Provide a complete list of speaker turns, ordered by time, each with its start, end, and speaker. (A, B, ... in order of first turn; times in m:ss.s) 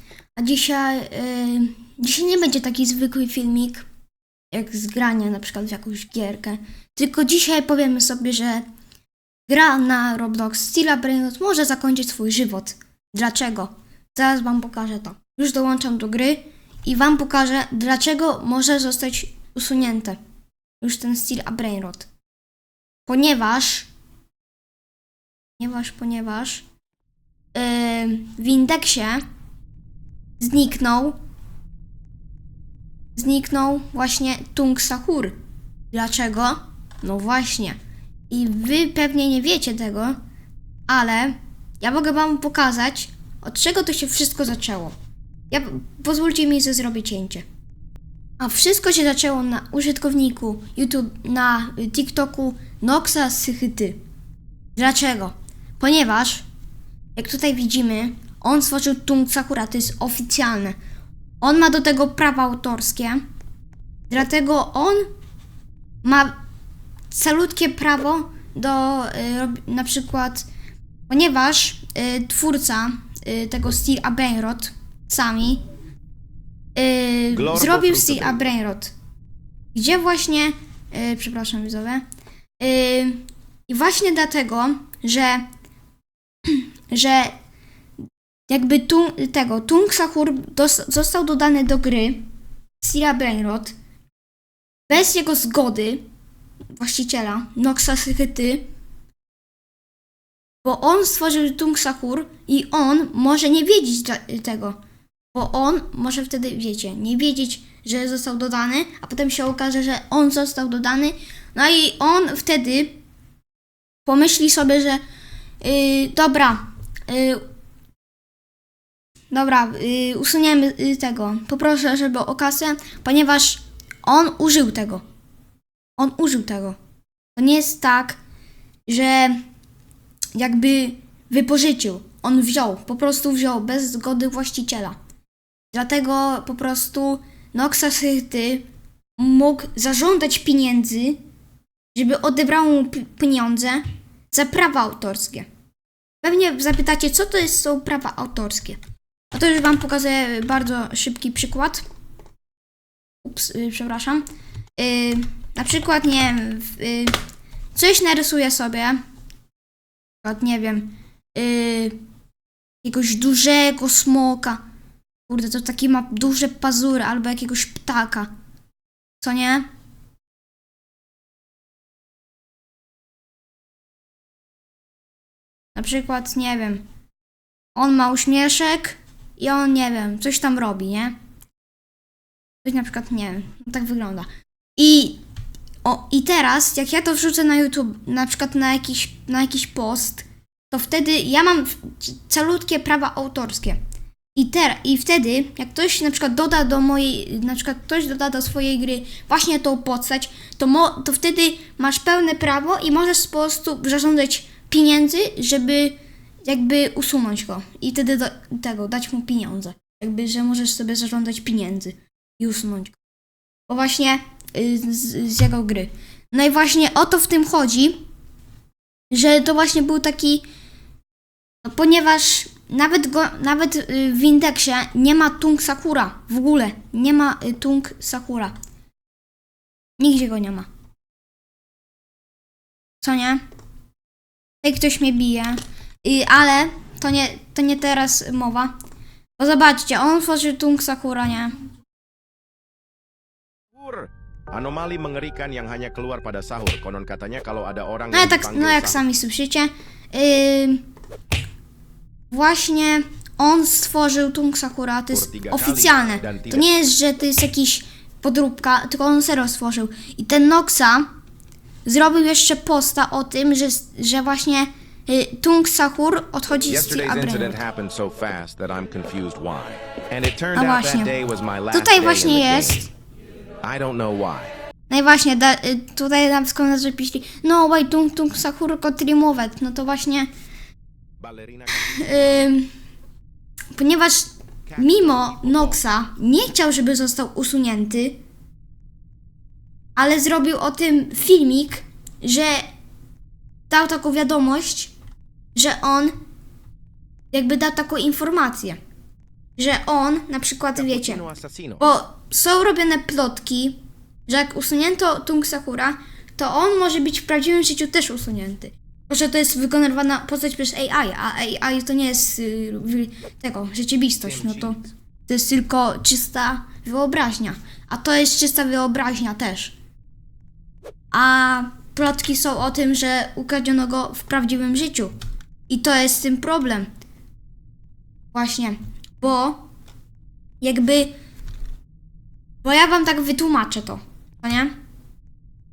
0:00.4-0:03.8 A
0:04.5-0:08.6 A
0:09.5-0:20.2 A
0:20.8-0:22.1 A
0:23.0-0:23.9 A
0:25.6-0:26.6 A
0:27.5-0:29.2 A
0:30.4-0:31.2 A
0:33.2-0:35.3 A
0:35.9-0:37.8 A
0:38.3-0:40.2 A
0:40.9-0:44.9 A
0:45.5-0:47.4 A
0:48.4-0:54.0 A
0:54.8-0:56.4 A
0:57.1-1:00.8 A
1:01.4-1:03.2 A
1:04.1-1:05.1 A
1:06.0-1:06.4 A
1:07.1-1:10.5 A
1:11.1-1:15.6 A
1:16.8-1:18.9 A
1:17.3-1:18.5 B
1:19.7-1:22.0 A
1:22.6-1:25.4 A
1:26.4-1:27.3 A
1:28.5-1:32.2 A
1:32.8-1:33.7 A
1:34.9-1:36.0 A
1:36.8-1:38.6 A
1:40.6-1:44.8 A
1:45.3-1:53.0 A
1:54.0-1:55.0 A
1:55.6-1:57.4 A
1:59.3-2:05.0 A
2:06.0-2:06.8 A
2:07.4-2:08.2 A
2:08.9-2:09.4 A
2:10.3-2:15.0 A
2:15.7-2:18.6 A
2:19.2-2:21.2 A
2:21.9-2:25.5 A
2:26.2-2:28.8 A
2:29.3-2:31.8 A
2:33.2-2:34.2 A
2:34.8-2:37.2 A
2:37.7-2:39.0 A
2:40.2-2:42.0 A
2:42.8-2:44.6 A
2:45.3-2:48.3 A
2:49.2-2:49.6 A
2:55.7-2:56.8 A
2:57.8-3:01.1 A
3:02.6-3:05.2 A
3:05.8-3:13.8 A
3:14.4-3:33.0 A
3:33.7-3:38.0 A
3:39.1-3:40.4 A
3:41.6-3:48.5 A
3:50.0-3:50.7 A
3:53.0-3:53.4 A
3:54.6-3:58.7 A
3:59.4-4:01.6 A
4:03.7-4:09.0 B
4:08.1-4:10.8 A
4:12.3-4:21.1 A
4:15.1-4:16.6 B
4:21.8-4:27.6 A
4:26.7-4:32.8 B
4:30.5-4:31.1 A
4:31.7-4:32.9 A
4:33.6-4:34.5 B
4:34.9-4:40.3 A
4:41.2-4:42.0 B
4:41.7-4:42.7 A
4:43.7-4:48.2 A
4:44.7-4:45.8 B
4:50.0-4:52.7 A
4:53.7-4:54.9 A
4:55.5-4:56.1 A
4:57.3-4:58.8 A
4:59.6-5:01.2 A
5:00.8-5:01.9 B
5:01.8-5:19.7 A
5:14.2-5:14.7 B
5:21.1-5:25.1 A
5:25.7-5:26.9 A
5:28.3-5:29.6 A
5:30.6-5:31.1 A
5:32.6-5:34.7 A